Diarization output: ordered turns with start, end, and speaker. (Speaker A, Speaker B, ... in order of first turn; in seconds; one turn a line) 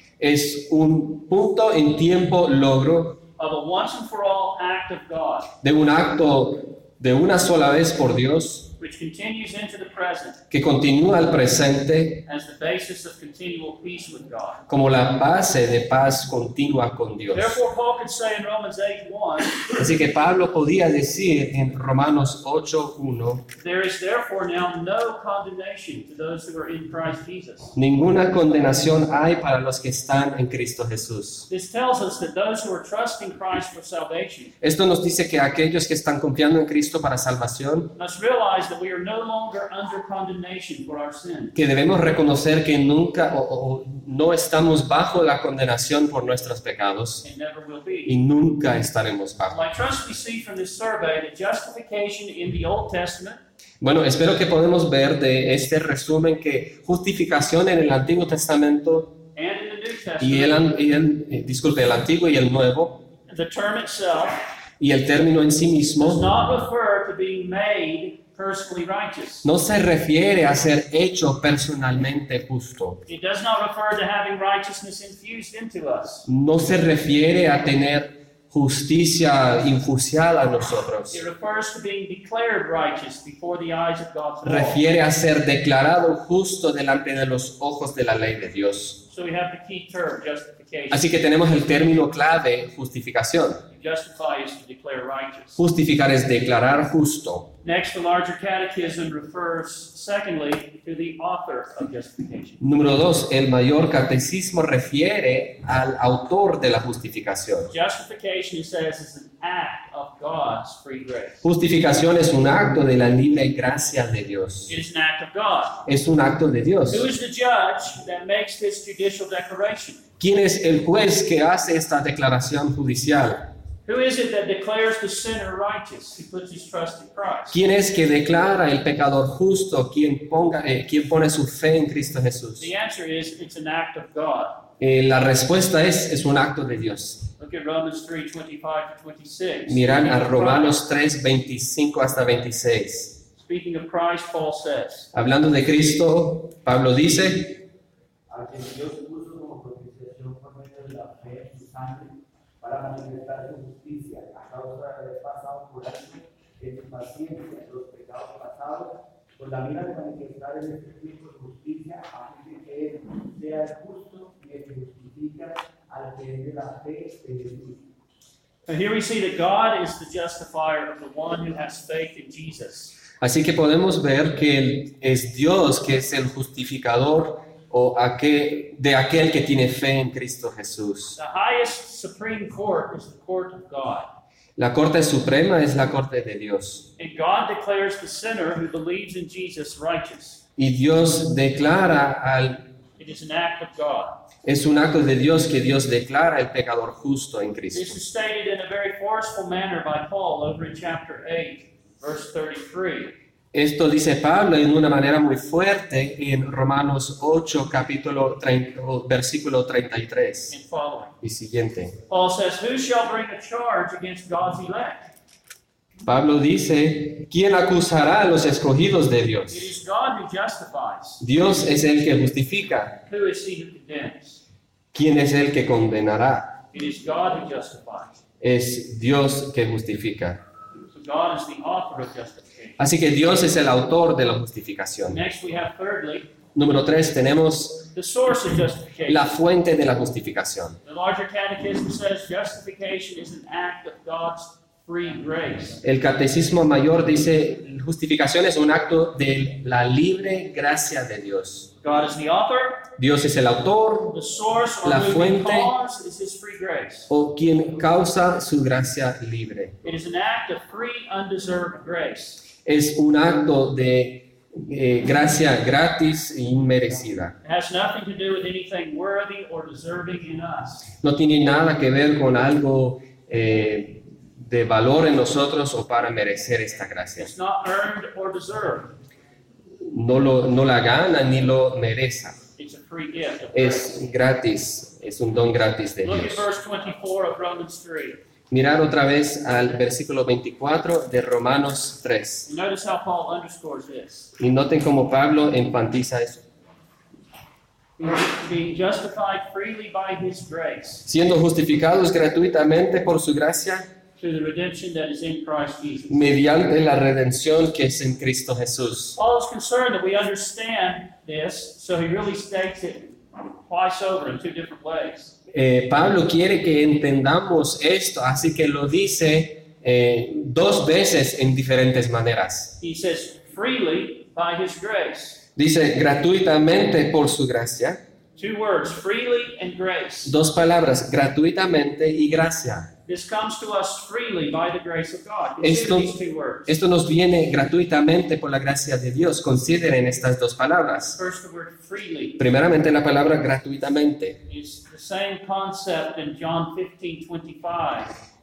Speaker A: 0.2-3.2
Speaker B: 3.4-5.5
Speaker A: 5.6-8.7
Speaker B: 8.8-10.4
Speaker A: 10.5-12.2
Speaker B: 12.3-14.6
Speaker A: 14.7-17.6
Speaker B: 17.3-19.7
Speaker A: 19.8-23.4
Speaker B: 23.6-27.8
Speaker A: 27.8-31.5
Speaker B: 31.5-34.5
Speaker A: 34.6-37.9
Speaker B: 38.0-41.6
Speaker A: 41.5-47.2
Speaker B: 47.2-48.2
Speaker A: 48.1-49.6
Speaker B: 49.5-53.4
Speaker A: 53.8-59.1
Speaker B: 59.4-60.7
Speaker A: 60.2-63.0
Speaker B: 63.3-64.4
Speaker A: 64.8-66.4
Speaker B: 66.0-69.5
Speaker A: 69.4-73.0
Speaker B: 73.1-76.3
Speaker A: 76.3-81.2
Speaker B: 81.1-84.8
Speaker A: 84.4-89.0
Speaker B: 89.1-91.1
Speaker A: 90.9-93.7
Speaker B: 93.7-95.6
Speaker A: 95.6-97.5
Speaker B: 97.6-102.6
Speaker A: 102.6-107.7
Speaker B: 107.7-111.5
Speaker A: 111.4-114.8
Speaker B: 114.7-115.8
Speaker A: 115.9-117.1
Speaker B: 116.9-120.0
Speaker A: 120.2-123.5
Speaker B: 123.9-127.6
Speaker A: 127.5-132.7
Speaker B: 132.6-134.6
Speaker A: 134.8-137.3
Speaker B: 137.4-140.8
Speaker A: 139.7-143.2
Speaker B: 143.4-145.1
Speaker A: 145.1-147.6
Speaker C: 148.3-167.8
Speaker B: 168.7-173.0
Speaker A: 173.2-181.2
Speaker B: 181.2-184.1
Speaker A: 184.6-186.9
Speaker B: 187.0-190.4
Speaker A: 190.6-192.7
Speaker B: 193.0-194.2
Speaker A: 194.4-198.0
Speaker B: 197.7-203.2
Speaker A: 203.5-210.6
Speaker B: 210.5-211.2
Speaker A: 211.2-212.0
Speaker B: 212.1-215.1
Speaker A: 216.1-219.7
Speaker B: 219.5-221.3
Speaker A: 221.2-223.0
Speaker B: 223.1-224.4
Speaker A: 224.9-226.6
Speaker B: 226.7-228.2
Speaker A: 228.4-230.4
Speaker B: 230.9-232.8
Speaker A: 232.8-235.2
Speaker B: 235.1-236.3
Speaker A: 236.6-237.9
Speaker B: 237.9-239.3
Speaker A: 239.1-240.8
Speaker B: 240.8-245.8
Speaker A: 245.8-251.7
Speaker B: 251.8-252.9
Speaker A: 253.0-254.2
Speaker B: 254.1-257.1
Speaker A: 254.8-255.7
Speaker A: 257.1-259.8
Speaker B: 259.8-262.4
Speaker A: 262.6-267.4
Speaker B: 267.4-270.9
Speaker A: 271.0-277.3
Speaker B: 277.2-278.9
Speaker A: 279.9-282.4
Speaker B: 282.6-284.0
Speaker A: 283.5-286.5
Speaker B: 286.0-288.2
Speaker A: 288.5-292.5
Speaker B: 292.5-294.3
Speaker A: 294.4-296.4
Speaker B: 298.0-301.1
Speaker A: 301.1-303.9
Speaker B: 304.2-306.2
Speaker A: 306.1-309.2
Speaker B: 309.2-315.4
Speaker A: 315.5-322.8
Speaker B: 322.8-325.4
Speaker A: 325.6-328.0
Speaker B: 328.4-330.3
Speaker A: 330.3-332.9
Speaker B: 333.1-336.8
Speaker A: 335.6-341.2
Speaker B: 341.2-342.4
Speaker A: 342.4-344.4
Speaker B: 344.5-348.1